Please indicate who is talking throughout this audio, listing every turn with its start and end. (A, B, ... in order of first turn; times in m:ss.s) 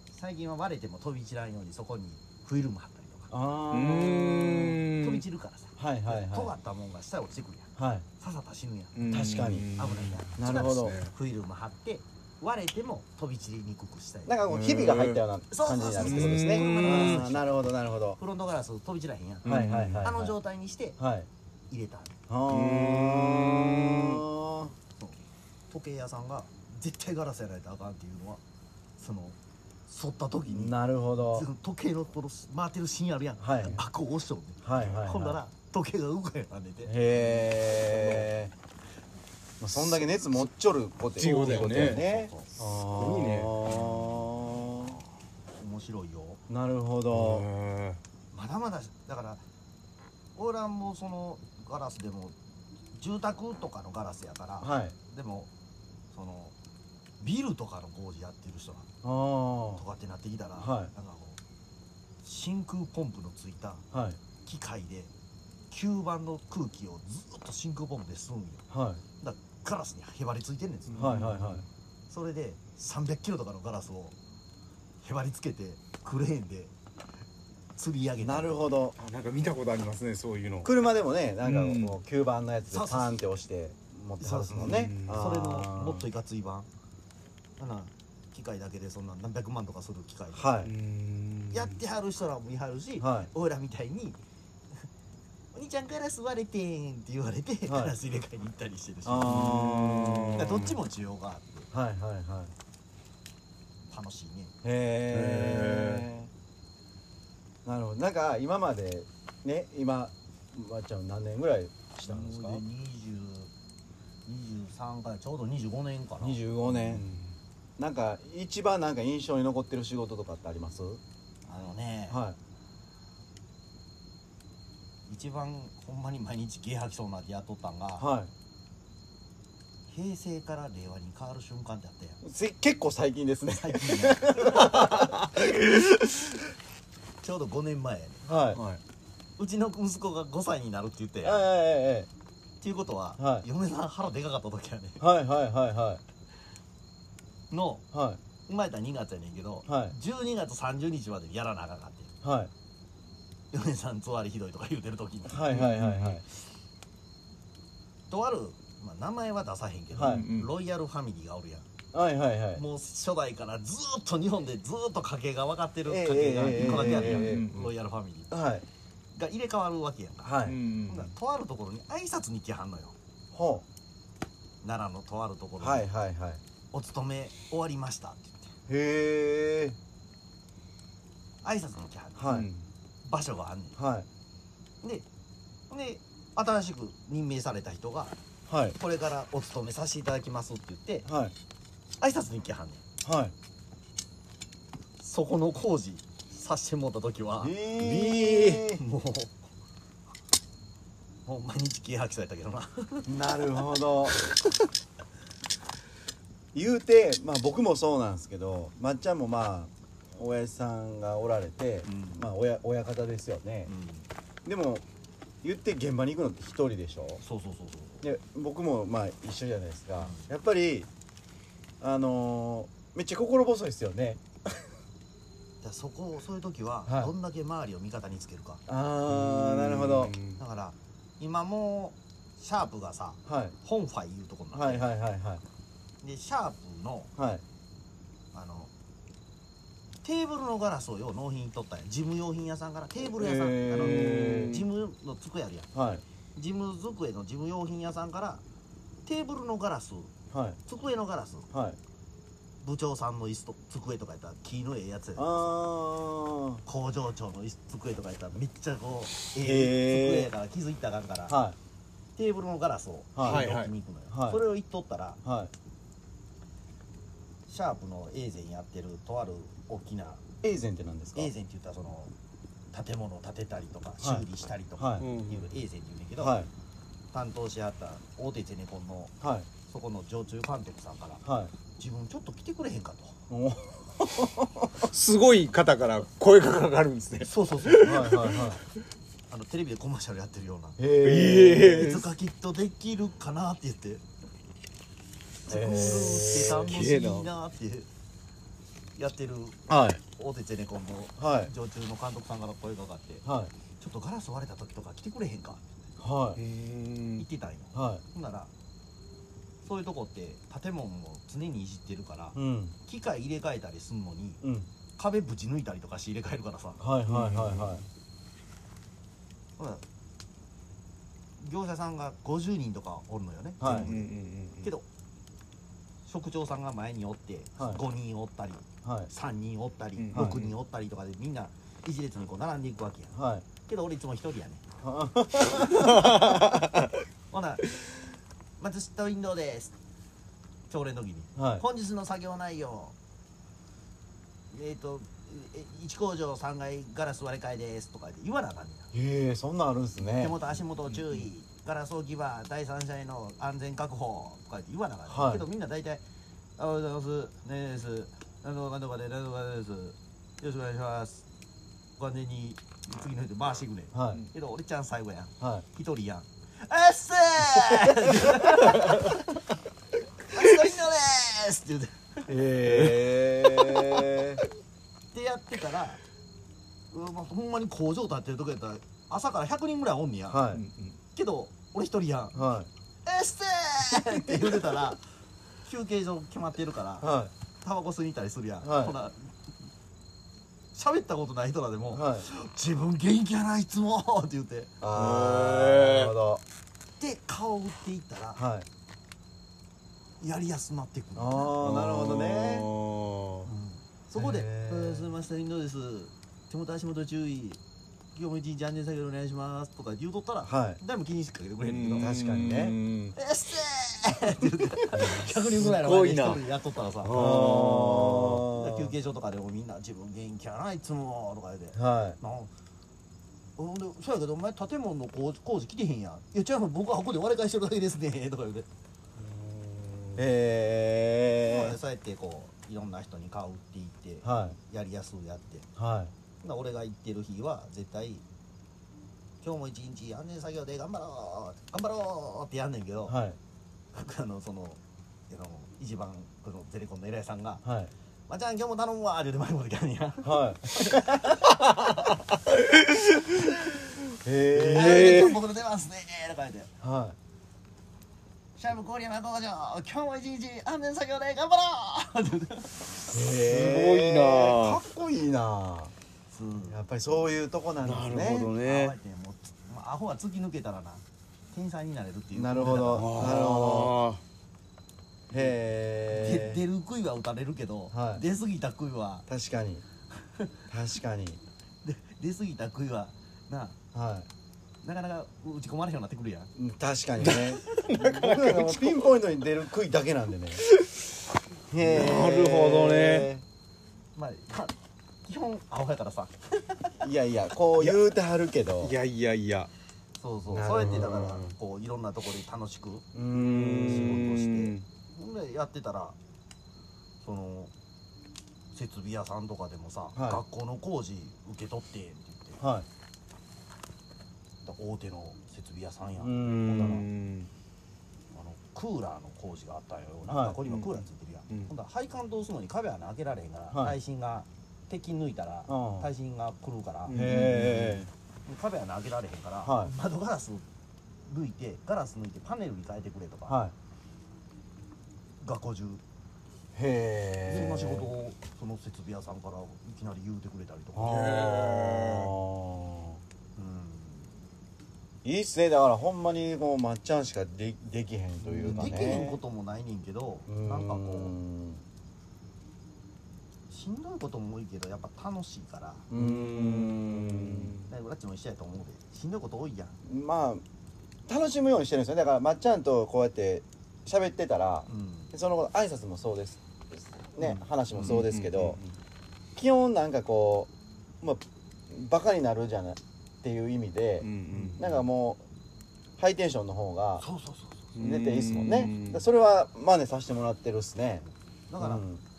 0:00.1-0:03.4 A
0:03.3-0:04.8 B
0:03.7-0:05.2 C
0:04.9-0:09.2 A
0:05.8-0:06.5 B
0:07.8-0:08.1 B
0:08.9-0:11.1 C
0:09.1-0:09.8 B
0:09.7-0:14.4 A
0:10.4-0:11.0 B
0:14.3-0:18.2 B
0:14.4-0:15.2 C
0:15.5-0:21.0 A
0:16.0-0:17.2 C
0:19.4-0:20.1 C
0:19.4-0:20.4 B
0:21.0-0:21.3 B
0:21.7-0:22.1 A
0:22.3-0:24.8 B
0:22.5-0:24.2 C
0:25.7-0:28.4 A
0:29.0-0:29.4 A
0:29.9-0:38.3 A
0:30.5-0:31.4 B
0:33.4-0:33.8 B
0:34.6-0:35.4 B
0:36.9-0:38.5 B
0:39.6-0:45.0 B
0:41.1-0:42.1 C
0:41.2-0:42.5 A
0:42.6-0:43.5 C
0:43.6-0:45.0 A
0:45.6-0:46.4 A
0:46.5-0:47.5 B
0:47.1-0:48.0 C
0:48.3-0:49.4 A
0:50.4-0:52.4 A
0:52.9-0:55.5 A
0:54.6-0:54.9 B
0:56.1-0:56.5 A
0:57.2-0:58.9 A
0:59.0-0:59.8 B
0:59.8-1:01.4 A
1:00.6-1:00.9 B
1:02.2-1:03.8 A
1:03.9-1:04.2 B
1:04.4-1:05.1 A
1:05.7-1:08.6 A
1:08.7-1:09.0 B
1:09.2-1:11.2 A
1:10.9-1:11.6 C
1:10.9-1:11.6 B
1:12.1-1:14.1 A
1:15.0-1:16.7 A
1:17.8-1:18.7 A
1:18.2-1:19.0 B
1:19.0-1:20.7 C
1:20.6-1:26.1 B
1:21.4-1:22.0 C
1:22.7-1:23.2 A
1:24.2-1:26.7 A
1:24.6-1:25.4 C
1:27.6-1:30.5 A
1:30.3-1:30.7 B
1:30.6-1:31.8 C
1:31.5-1:34.2 A
1:33.0-1:33.3 B
1:35.5-1:39.6 A
1:37.7-1:37.9 B
1:39.1-1:40.8 B
1:39.3-1:40.6 C
1:40.3-1:41.7 A
1:41.7-1:42.5 B
1:43.9-1:44.5 A
1:44.6-1:46.3 B
1:45.1-1:46.1 C
1:47.6-1:52.6 B
1:52.1-1:53.5 A
1:54.3-1:57.0 A
1:56.2-1:57.0 B
1:56.8-1:57.3 C
1:57.8-2:01.0 B
2:01.5-2:02.2 A
2:02.1-2:02.4 B
2:05.1-2:08.1 A
2:08.0-2:08.3 B
2:09.9-2:12.2 A
2:12.2-2:15.3 B
2:13.5-2:15.2 A
2:17.2-2:18.3 A
2:18.3-2:18.6 B
2:18.5-2:18.8 C
2:19.4-2:21.5 A
2:21.2-2:22.1 B
2:22.6-2:25.0 A
2:23.2-2:23.5 B
2:25.0-2:26.0 B
2:27.5-2:27.8 A
2:27.9-2:28.2 B
2:28.5-2:32.1 A
2:29.6-2:30.0 B
2:32.2-2:32.5 B
2:33.5-2:35.5 A
2:35.3-2:36.2 B
2:35.5-2:36.2 C
2:38.1-2:41.7 A
2:39.9-2:40.3 B
2:39.9-2:40.5 C
2:41.9-2:42.6 B
2:42.5-2:48.3 A
2:45.9-2:47.5 B
2:46.5-2:47.7 C
2:48.3-2:48.6 B
2:49.2-2:52.9 A
2:50.2-2:50.6 B
2:50.4-2:51.1 C
2:53.3-2:53.6 B
2:54.6-2:55.9 A
2:55.6-2:56.4 B
2:56.7-2:58.5 A
2:58.7-2:59.8 B
3:01.4-3:02.3 A
3:02.2-3:02.5 B
3:02.3-3:02.6 C
3:03.0-3:03.8 A
3:03.8-3:04.1 B
3:04.8-3:05.1 A
3:05.7-3:08.2 A
3:08.5-3:08.8 B
3:08.8-3:11.1 A
3:11.1-3:11.4 B
3:12.0-3:12.8 A
3:13.0-3:13.4 B
3:15.0-3:19.3 A
3:17.4-3:18.8 B
3:17.8-3:18.6 C
3:21.3-3:23.1 A
3:23.1-3:24.2 B
3:26.5-3:33.7 B
3:31.9-3:32.3 A
3:33.7-3:34.1 A
3:34.4-3:34.8 B
3:35.4-3:37.2 B
3:37.2-3:38.0 A
3:38.0-3:40.9 B
3:40.0-3:40.3 A
3:41.8-3:44.7 B
3:45.6-3:48.6 A
3:46.9-3:47.1 B
3:48.7-3:50.2 B
3:49.1-3:50.4 C
3:50.4-3:54.9 A
3:53.3-3:53.6 B
3:54.5-3:55.4 B
3:56.0-3:57.1 A
3:57.2-3:57.4 B
3:58.3-3:58.7 A
4:00.0-4:05.7 A
4:03.0-4:04.6 B
4:03.8-4:04.6 C
4:05.7-4:06.0 B
4:06.4-4:08.4 A
4:09.1-4:10.1 A
4:10.3-4:10.6 B
4:10.6-4:11.5 A
4:11.5-4:11.8 B
4:12.6-4:15.6 A
4:15.2-4:16.6 B
4:16.6-4:21.4 A
4:19.4-4:20.3 B
4:21.3-4:21.6 B
4:22.2-4:25.2 A
4:23.1-4:23.5 B
4:23.2-4:23.7 C
4:24.1-4:24.5 B
4:25.2-4:25.5 B
4:27.5-4:30.2 A
4:30.4-4:31.3 B
4:31.1-4:32.1 A
4:32.7-4:36.4 A
4:34.8-4:35.1 B
4:35.0-4:35.5 C
4:36.2-4:36.5 B
4:37.1-4:39.1 A
4:39.2-4:39.5 B
4:39.7-4:41.2 A
4:41.2-4:41.5 B
4:41.8-4:43.2 A
4:43.3-4:44.8 B
4:44.8-4:48.6 C
4:47.2-4:48.0 A
4:47.7-4:48.6 B
4:49.3-4:50.8 A
4:50.8-4:51.9 B
4:51.0-4:52.1 C
4:51.5-4:54.0 A
4:55.4-4:57.9 A
4:55.5-4:56.8 B
4:56.5-4:57.3 C
4:59.0-5:03.2 A
4:59.7-5:00.0 B
5:01.2-5:01.5 B
5:03.2-5:03.5 B
5:03.8-5:05.9 A
5:06.0-5:06.4 B
5:06.4-5:07.2 C
5:07.2-5:08.5 A
5:07.8-5:08.0 B
5:09.6-5:14.4 A
5:12.4-5:12.8 B
5:15.0-5:16.8 A
5:16.8-5:17.8 B
5:17.1-5:17.8 C
5:19.6-5:19.8 A
5:21.4-5:24.9 A
5:23.6-5:23.9 B
5:23.6-5:24.7 C
5:26.1-5:34.6 A
5:28.8-5:29.1 B
5:30.0-5:30.5 C
5:30.1-5:30.4 B
5:33.1-5:33.4 B
5:34.8-5:36.2 B
5:35.8-5:36.0 A
5:35.9-5:36.5 C
5:37.3-5:37.8 A
5:38.6-5:39.7 A
5:40.7-5:42.9 A
5:41.4-5:41.6 B
5:44.5-5:48.9 A
5:48.9-5:50.4 B
5:50.2-5:56.0 A
5:50.9-5:51.3 C
5:55.1-5:55.5 B
5:56.6-6:01.2 A
6:02.0-6:09.2 A
6:03.9-6:04.2 B
6:10.2-6:12.3 A
6:12.3-6:13.3 C
6:12.3-6:14.4 B
6:15.1-6:16.0 A
6:16.9-6:20.4 A
6:20.3-6:20.6 B
6:20.5-6:21.0 C
6:21.1-6:22.4 A
6:22.4-6:22.7 B
6:23.0-6:25.0 A
6:24.1-6:24.6 B
6:25.6-6:29.3 A
6:27.0-6:27.3 B
6:28.6-6:28.9 B
6:30.7-6:34.7 A
6:31.9-6:32.3 B
6:34.8-6:36.4 B
6:34.9-6:36.1 C
6:37.0-6:38.4 A
6:38.4-6:38.7 B
6:40.2-6:41.8 A
6:41.2-6:42.7 B
6:41.6-6:43.5 C
6:43.4-6:47.6 A
6:44.1-6:45.1 B
6:48.1-6:52.1 A
6:50.4-6:50.8 B
6:51.6-6:53.2 C
6:52.0-6:52.8 B
6:53.1-6:57.2 A
6:55.1-6:56.4 C
6:57.0-6:58.4 C
6:57.1-6:58.9 B
6:58.2-7:02.5 A
7:01.8-7:02.2 B
7:03.6-7:08.7 A
7:09.2-7:10.2 C
7:10.2-7:11.8 B
7:11.4-7:15.7 A
7:14.2-7:14.6 B
7:15.8-7:16.1 B
7:16.4-7:18.2 A
7:19.4-7:23.2 A
7:23.1-7:23.4 B
7:23.9-7:27.6 A
7:27.6-7:27.9 B
7:28.3-7:32.2 A
7:30.2-7:31.0 B
7:34.2-7:35.3 B
7:34.6-7:35.4 C
7:34.6-7:36.7 A
7:36.8-7:37.2 B
7:38.6-7:42.7 A
7:43.1-7:45.9 B
7:43.3-7:44.8 C
7:46.3-7:46.8 A
7:46.7-7:48.6 B
7:47.8-7:48.9 C
7:48.5-7:53.4 A
7:52.3-7:54.0 B
7:52.9-7:54.2 C
7:55.3-7:56.6 B
7:56.1-7:59.3 A
7:57.9-7:58.2 B
7:59.3-7:59.8 B
8:00.3-8:00.6 A
8:00.7-8:01.4 B
8:01.8-8:03.8 A
8:03.9-8:04.3 B
8:04.8-8:06.5 A
8:06.6-8:10.6 B
8:07.2-8:09.1 C
8:10.6-8:11.1 C
8:11.7-8:13.4 B
8:11.8-8:13.3 C
8:14.2-8:14.8 A
8:15.3-8:17.0 A
8:17.0-8:18.9 B
8:18.8-8:19.7 C
8:20.2-8:23.1 A
8:20.5-8:21.3 B
8:20.8-8:21.5 C
8:23.1-8:24.3 B
8:23.4-8:24.8 C
8:23.6-8:26.2 A
8:27.2-8:27.7 A
8:28.7-8:32.6 A
8:30.2-8:30.4 B
8:32.6-8:32.9 B
8:34.6-8:37.0 A
8:36.2-8:37.0 B
8:36.6-8:37.5 C
8:38.3-8:47.5 A
8:40.3-8:40.6 B
8:40.6-8:41.7 C
8:45.7-8:46.1 B
8:47.1-8:48.1 C
8:47.1-8:48.1 B
8:48.4-8:50.6 A
8:49.6-8:49.9 B
8:51.3-8:53.6 A
8:53.5-8:53.7 B
8:55.4-8:56.0 A
8:56.7-8:58.1 B
8:57.4-9:01.2 A
9:01.0-9:03.2 B
9:01.0-9:02.3 C
9:03.6-9:04.3 A
9:05.2-9:09.4 B
9:08.4-9:08.9 C
9:08.6-9:11.4 A
9:10.5-9:11.8 B
9:13.7-9:16.1 A
9:16.1-9:17.8 B
9:16.1-9:17.9 C
9:17.9-9:20.0 A
9:20.0-9:20.6 B
9:21.3-9:28.8 B
9:24.9-9:25.3 A
9:27.4-9:28.9 C
9:29.6-9:30.7 B
9:31.2-9:35.4 B
9:34.2-9:34.9 C
9:36.2-9:37.2 B
9:37.2-9:37.9 A
9:37.9-9:39.2 C
9:38.0-9:42.2 B
9:41.7-9:42.1 A